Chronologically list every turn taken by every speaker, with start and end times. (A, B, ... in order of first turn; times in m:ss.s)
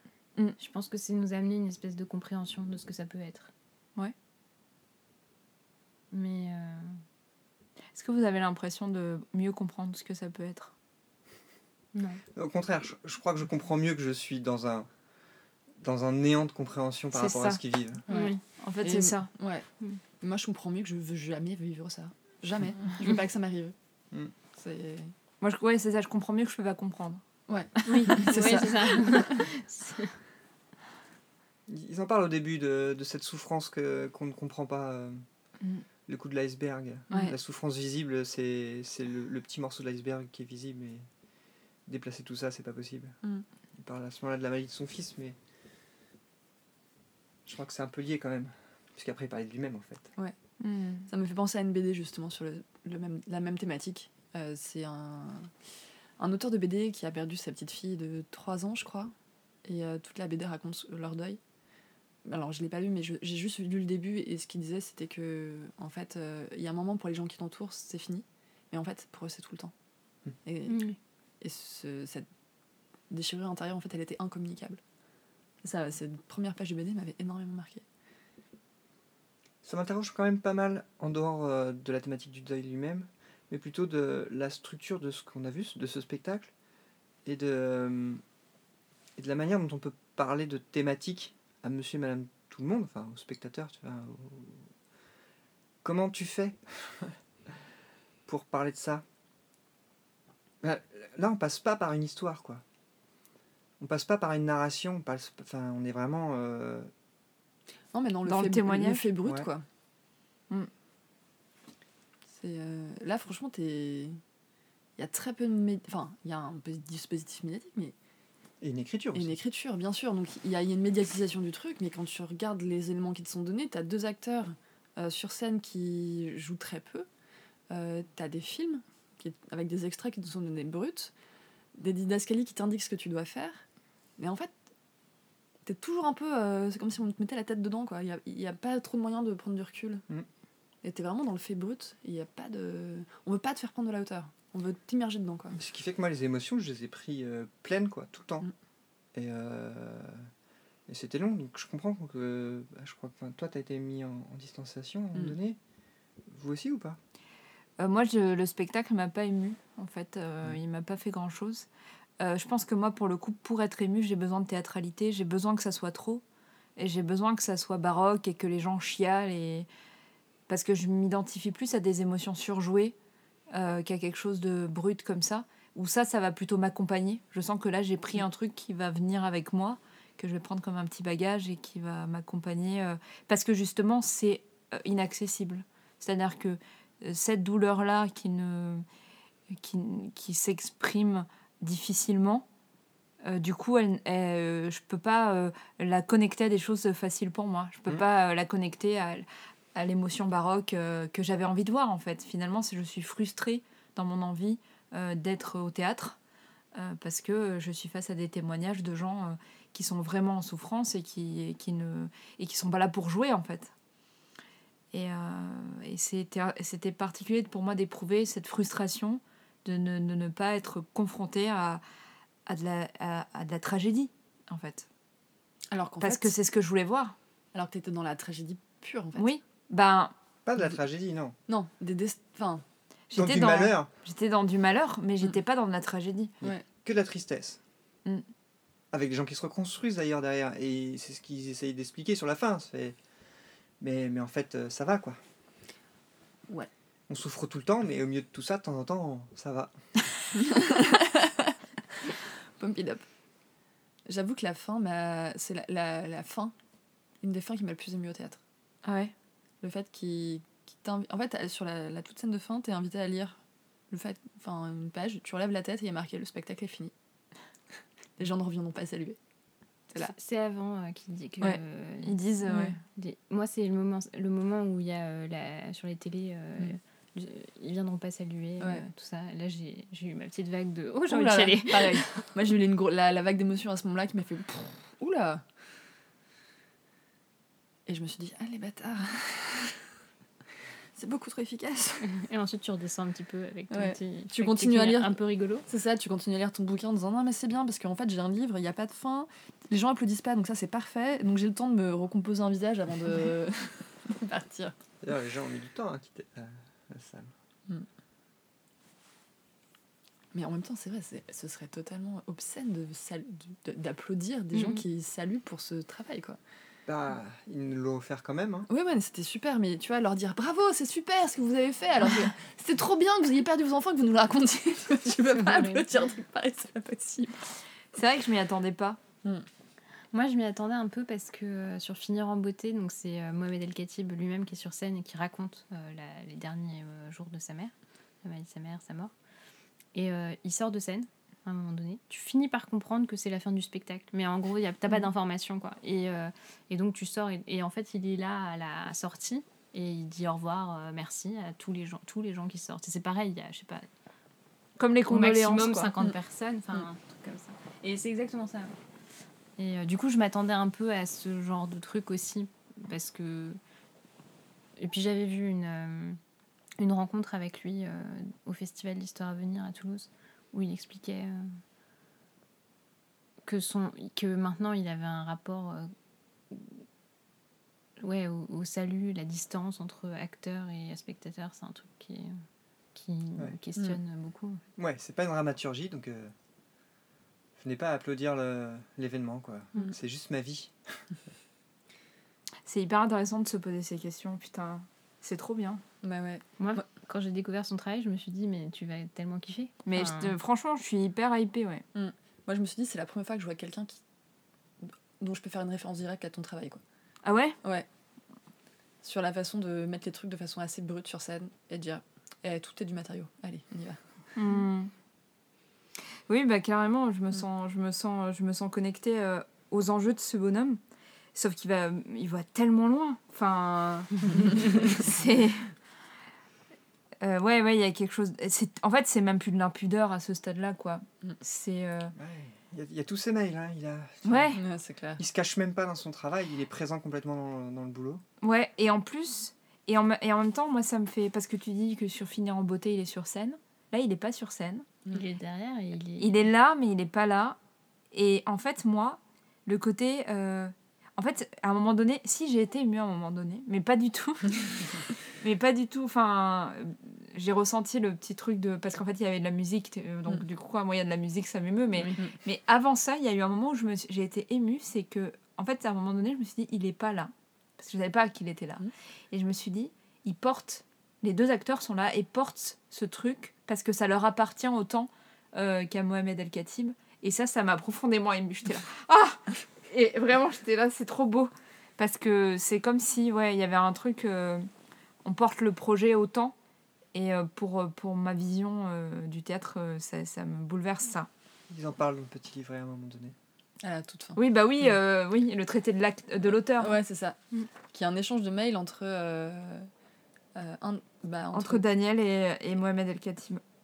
0:00.6-0:03.5 A
0:06.1-0:07.0 A
0:07.9-0:10.7 B
0:11.9-0:12.2 A
0:12.3-0:14.9 C
0:15.8-0:18.0 C
0:17.1-0:19.3 B
0:18.1-0:19.7 D
0:18.1-0:18.4 A
0:20.2-0:23.7 D
0:24.5-0:25.1 D
0:25.4-0:27.2 B
0:27.5-0:29.4 D
0:27.8-0:28.7 B
0:28.1-0:30.2 A
0:31.7-0:35.2 C
0:36.0-0:41.1 C
0:41.8-0:43.2 C
0:43.8-0:45.4 C
0:47.4-0:50.1 C
0:50.6-0:51.1 B
0:51.1-0:55.5 D
0:56.2-0:59.1 D
0:59.6-1:01.4 D
1:02.2-1:09.7 D
1:10.4-1:10.8 D
1:10.7-1:11.0 A
1:11.4-1:12.2 D
1:13.1-1:14.8 D
1:15.6-1:17.8 D
1:19.6-1:26.5 C
1:27.2-1:28.2 C
1:29.2-1:34.7 C
1:35.8-1:37.5 C
1:38.2-1:39.0 C
1:40.6-1:42.6 C
1:43.8-1:46.9 C
1:47.9-1:49.6 D
1:48.2-1:49.1 B
1:49.2-1:49.5 C
1:52.3-1:54.2 D
1:55.0-1:57.9 D
1:58.6-1:59.4 C
1:59.1-2:07.1 D
2:07.7-2:11.1 D
2:11.8-2:13.6 D
2:14.2-2:14.5 D
2:15.6-2:20.0 D
2:20.8-2:25.6 D
2:25.6-2:28.5 C
2:29.1-2:30.3 C
2:30.9-2:35.6 C
2:36.3-2:37.0 C
2:37.8-2:41.7 B
2:42.2-2:46.2 B
2:46.8-2:49.7 B
2:50.5-2:52.9 B
2:53.5-3:08.8 B
3:09.6-3:12.4 B
3:13.2-3:26.2 B
3:26.7-3:33.7 B
3:34.9-3:41.8 B
3:42.4-3:44.9 B
3:45.7-3:46.3 D
3:46.0-3:47.2 B
3:47.5-3:49.4 D
3:49.2-3:50.1 B
3:50.4-3:51.4 C
3:51.5-3:52.6 D
3:53.1-3:56.3 B
3:53.1-3:53.9 C
3:56.4-3:57.6 C
3:58.9-4:03.0 C
4:03.8-4:05.2 C
4:07.1-4:09.8 C
4:10.4-4:13.0 D
4:14.1-4:16.5 D
4:17.2-4:18.4 D
4:18.8-4:19.1 B
4:19.6-4:26.9 D
4:28.2-4:29.2 D
4:30.0-4:32.2 A
4:31.4-4:32.8 B
4:32.5-4:32.7 D
4:32.8-4:42.1 A
4:38.6-4:38.8 D
4:41.1-4:45.4 D
4:47.9-4:50.0 D
4:50.9-4:52.0 D
4:52.0-4:55.6 A
4:53.7-5:04.7 D
5:05.0-5:07.3 C
5:10.3-5:16.4 D
5:14.5-5:14.8 A
5:16.8-5:18.7 C
5:18.7-5:27.5 D
5:25.3-5:25.9 A
5:27.9-5:29.0 B
5:30.1-5:39.1 A
5:39.9-5:53.9 A
5:54.8-5:56.1 B
5:55.1-5:58.7 A
5:59.6-6:03.6 A
6:04.8-6:06.2 A
6:06.8-6:11.6 A
6:13.4-6:15.9 A
6:16.5-6:16.8 A
6:18.0-6:22.4 A
6:22.9-6:24.6 A
6:24.8-6:26.3 C
6:27.6-6:31.1 C
6:32.6-6:35.8 B
6:36.0-6:36.8 D
6:36.6-6:40.4 A
6:39.8-6:41.8 B
6:41.9-6:44.0 D
6:44.8-6:46.8 D
6:47.2-6:47.6 B
6:49.0-6:54.0 D
6:54.3-6:54.9 B
6:56.3-7:00.8 B
7:01.3-7:05.7 B
7:07.2-7:12.1 B
7:12.1-7:14.6 C
7:14.2-7:14.6 B
7:14.5-7:15.2 D
7:15.2-7:18.2 C
7:18.4-7:24.8 B
7:25.1-7:26.4 A
7:26.2-7:27.6 B
7:28.1-8:04.7 B
7:42.0-7:42.3 D
8:05.2-8:06.5 B
8:07.1-8:11.3 B
8:11.7-8:13.3 C
8:13.8-8:14.4 D
8:14.4-8:17.0 B
8:16.4-8:19.9 D
8:20.5-8:21.8 D
8:21.5-8:23.6 B